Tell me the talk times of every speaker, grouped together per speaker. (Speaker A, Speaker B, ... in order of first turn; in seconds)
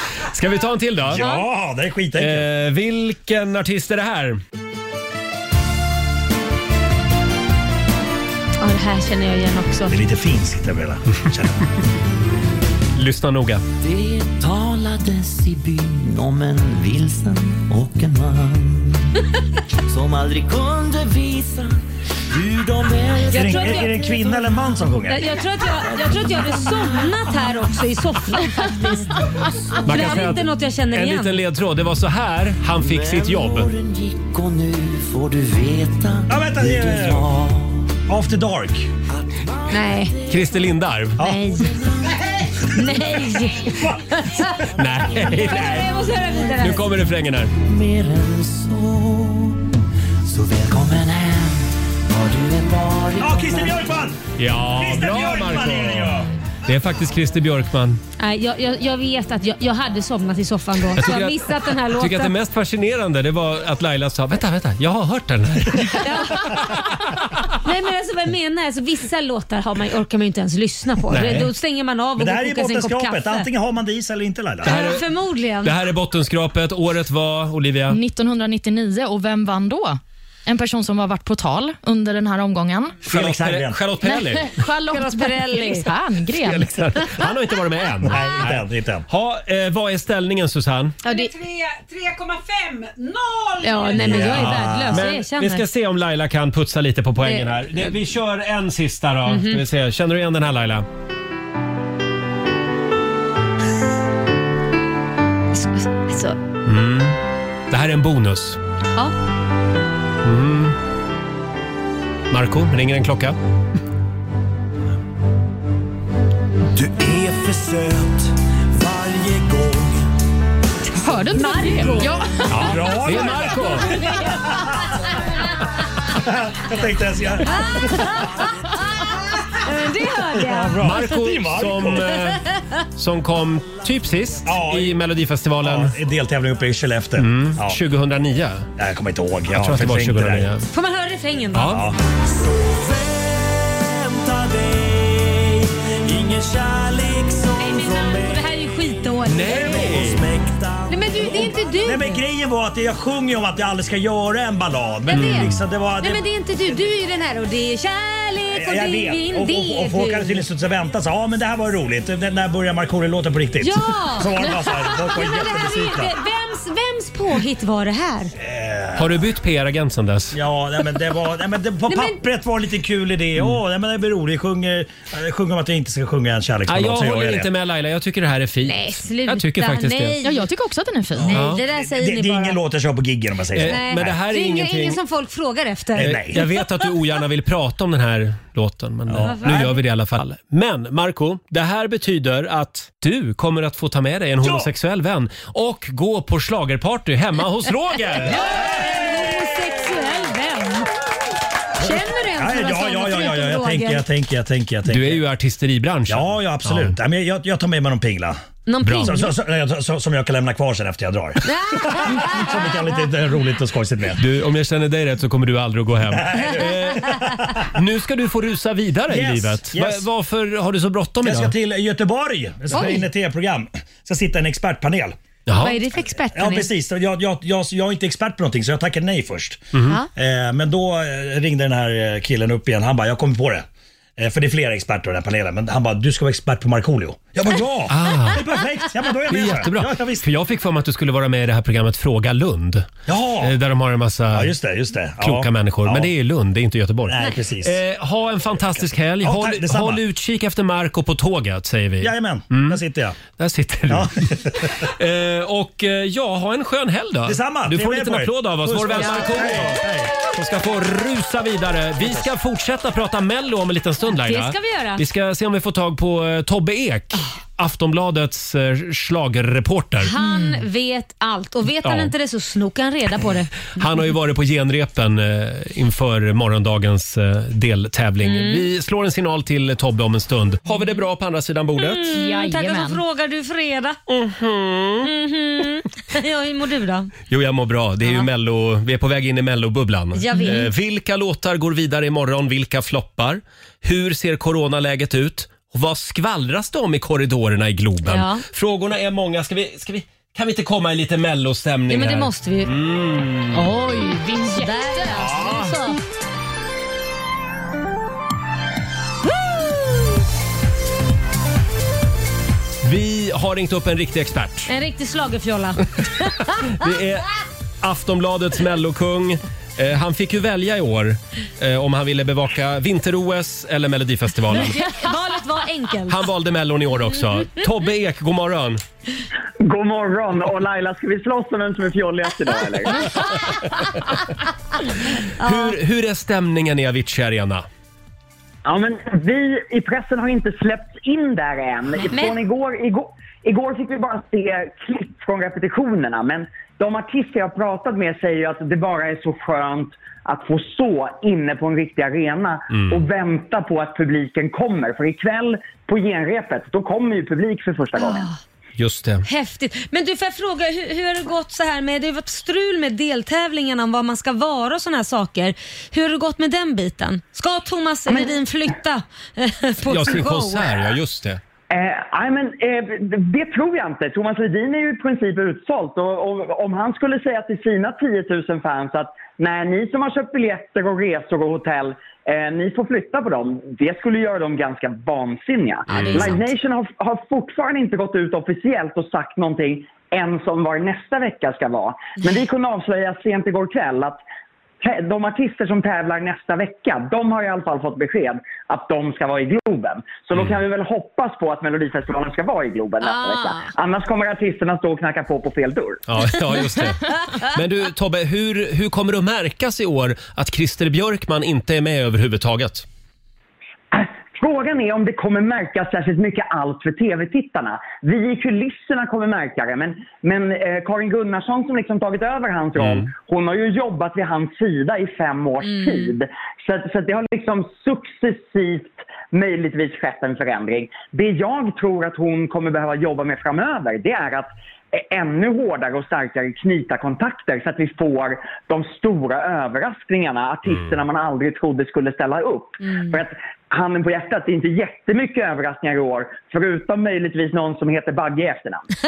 Speaker A: 0.3-1.2, 2.2-4.4, 12.9-13.6, 29.8-33.7, 40.3-41.2, 44.8-45.9, 46.6-47.5, 54.4-58.0, 61.0-67.5, 71.1-71.5, 74.6-75.0, 75.6-78.0, 83.0-84.6, 86.4-91.0, 94.3-100.8, 106.7-107.2, 107.7-108.6, 110.2-110.8, 112.3-113.4, 122.5-123.9, 130.8-135.9, 137.2-138.7, 139.5-140.7, 141.5-141.9, 149.2-150.2, 155.1-155.6, 168.9-170.3, 176.7-180.2, 181.3-181.6, 183.5-185.0, 186.0-198.4, 204.9-206.9, 208.8-209.2, 214.2-221.5, 225.5-225.8, 229.7-230.0, 237.9-238.4, 239.3-244.5, 245.2-270.1, 271.8-272.1, 273.7-282.1, 284.1-285.1, 287.3-303.7, 305.1-305.8, 312.8-314.7, 316.4-317.3, 317.8-324.8, 326.1-328.8, 335.4-337.6, 352.7-353.0, 358.8-359.2, 369.9-371.4, 385.9-386.4, 406.1-412.9, 422.8-423.1
Speaker B: 1.0-2.5, 9.9-11.6, 23.3-25.3, 36.3-37.3, 38.1-38.9, 41.2-41.5, 53.2-54.2, 54.7-56.3, 72.2-74.8, 83.0-83.8, 88.0-89.0, 93.9-95.1, 116.7-120.0, 122.5-124.9, 126.1-128.3, 130.3-132.2, 134.4-135.0, 135.6-137.8, 138.8-140.5, 141.7-142.0, 144.2-147.3, 149.8-156.8, 158.5-166.1, 168.4-169.2, 170.3-177.5, 181.1-184.2, 185.9-186.4, 189.1-189.7, 194.4-194.7, 198.4-199.2, 201.8-205.2, 206.1-208.4, 209.0-214.2, 216.1-217.6, 219.1-220.0, 221.2-225.2, 226.3-240.2, 243.1-243.5, 244.3-246.1, 247.1-247.8, 249.2-250.0, 252.0-253.2, 253.9-254.8, 257.2-260.1
Speaker C: 1.2-1.4, 8.6-9.9, 23.3-24.2, 25.1-29.0, 29.8-31.4, 39.7-40.2, 41.2-41.7, 42.7-44.6, 45.1-46.9, 58.2-62.3, 66.0-67.0, 67.6-73.5, 74.6-75.7, 84.9-85.9, 91.0-91.3, 93.6-95.6, 97.2-97.7, 99.3-99.6, 105.5-106.3, 121.3-122.1, 123.9-124.7, 127.4-129.1, 129.6-131.1, 140.7-141.8, 147.6-149.9, 150.9-152.2, 155.1-160.4, 163.6-168.3, 171.9-172.2, 178.6-180.5, 181.2-182.6, 183.6-186.5, 189.2-189.8, 198.2-200.9, 201.8-204.0, 208.7-209.3, 211.4-212.7, 222.7-223.0, 225.6-226.7, 259.0-259.2, 264.2-265.0, 270.0-273.6, 278.2-278.6, 281.8-284.0, 285.0-287.1, 290.1-290.7, 298.1-298.4, 301.9-302.7, 304.5-306.0, 314.7-316.6, 324.5-326.2, 335.4-335.8, 342.0-342.4, 358.0-358.4, 359.2-370.9, 385.9-386.4, 403.0-403.7, 425.6-426.1, 442.8-443.1
Speaker D: 13.8-19.1, 19.8-24.9, 25.6-27.5, 28.6-30.2, 32.8-38.0, 39.1-40.7, 41.5-43.9, 44.8-46.6, 47.6-49.6, 50.2-54.0, 142.6-145.1, 146.1-148.4, 150.1-151.4
Speaker E: 77.9-83.0, 84.0-86.7, 120.9-122.4, 180.2-181.4, 270.2-270.6, 282.1-283.0, 303.5-305.1
Speaker F: 91.0-93.9
Speaker G: 329.6-333.2, 338.6-358.3, 371.7-394.2, 394.8-406.0, 413.9-448.9